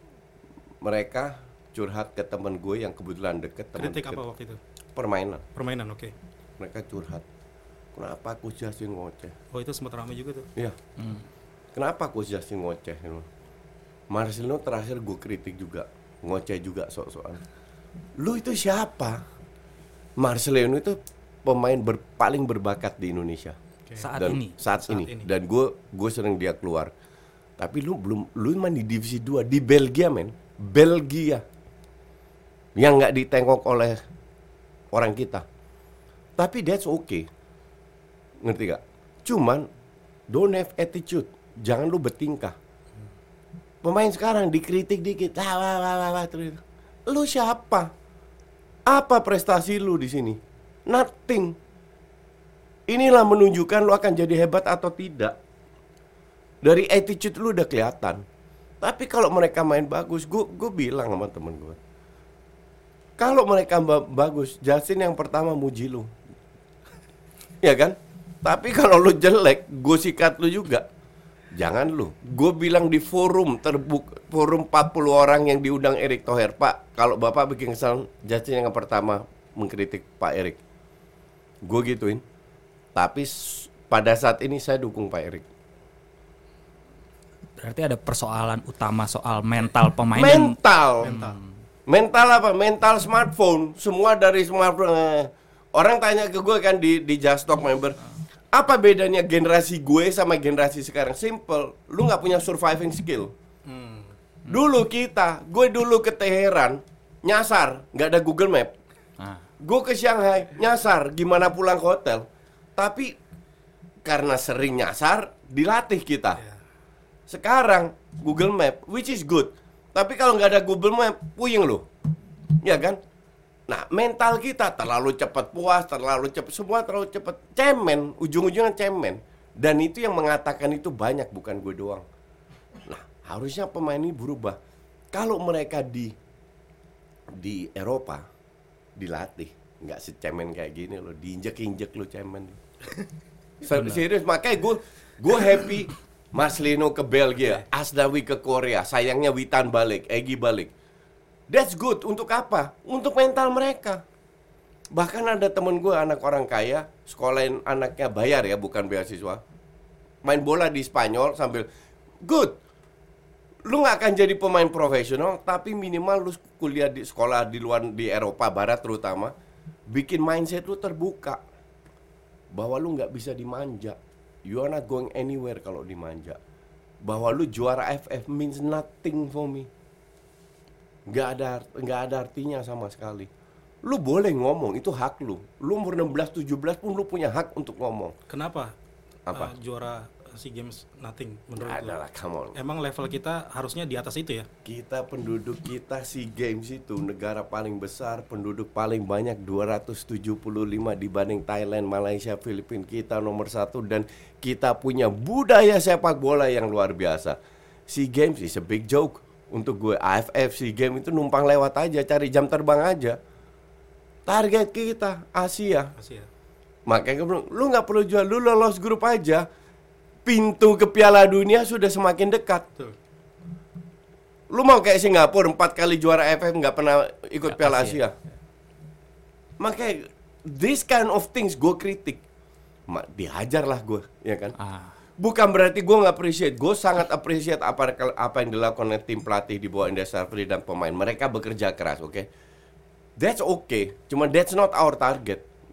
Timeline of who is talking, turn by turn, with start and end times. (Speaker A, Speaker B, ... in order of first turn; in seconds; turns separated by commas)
Speaker A: 0.8-4.2, Speaker B: 3.8-4.6, Speaker A: 4.9-5.4, Speaker B: 5.5-6.1, Speaker A: 6.6-7.2, Speaker A: 7.9-9.3, Speaker B: 9.5-10.5, Speaker C: 11.0-11.2, Speaker A: 11.7-13.3, Speaker A: 14.1-17.4, Speaker A: 18.2-19.2, Speaker A: 20.2-23.6, Speaker C: 24.0-24.6, Speaker A: 24.1-26.9, Speaker B: 24.8-25.3, Speaker A: 27.6-31.4, Speaker A: 32.8-34.0, Speaker A: 34.9-35.4, Speaker A: 36.4-37.3, Speaker A: 38.4-39.7, Speaker A: 40.3-42.5, Speaker A: 43.8-47.9, Speaker A: 48.9-51.5, Speaker A: 52.9-55.4, Speaker A: 56.6-58.2, Speaker A: 58.8-61.8, Speaker A: 63.2-66.1, Speaker A: 67.6-70.9, Speaker A: 71.5-80.6, Speaker A: 81.6-82.2, Speaker A: 82.9-85.5, Speaker C: 87.6-91.5, Speaker A: 90.1-91.1, Speaker B: 91.0-91.4, Speaker A: 91.9-98.0, Speaker A: 98.5-103.3, Speaker B: 103.7-104.1, Speaker A: 104.5-108.7, Speaker C: 109.2-109.4, Speaker A: 109.6-112.2, Speaker A: 112.8-113.1, Speaker A: 114.0-116.4, Speaker A: 117.3-121.8, Speaker A: 122.6-123.0, Speaker A: 123.7-132.0, Speaker A: 132.8-134.6, Speaker A: 135.1-136.1, Speaker A: 137.4-138.2, Speaker A: 139.0-142.6, Speaker A: 143.6-150.7, Speaker C: 143.7-144.0, Speaker A: 151.5-154.0, Speaker A: 154.9-159.4, Speaker A: 160.2-161.7, Speaker A: 162.2-162.6, Speaker A: 163.7-169.3, Speaker A: 169.9-171.4, Speaker A: 172.5-176.4, Speaker A: 177.0-179.7, Speaker A: 181.1-183.3, Speaker A: 183.8-188.1, Speaker B: 188.3-188.7, Speaker A: 189.3-189.5, Speaker B: 189.3-191.9, Speaker A: 191.6-192.6, Speaker B: 192.6-194.5, Speaker A: 194.6-207.4, Speaker A: 207.9-213.2, Speaker A: 214.3-215.9, Speaker B: 216.0-216.3, Speaker A: 216.9-219.4, Speaker A: 220.2-222.7, Speaker A: 224.5-228.2, Speaker C: 227.5-228.0, Speaker A: 229.6-232.2, Speaker A: 232.9-234.6, Speaker C: 234.6-234.9, Speaker A: 235.2-242.3, Speaker A: 243.2-245.4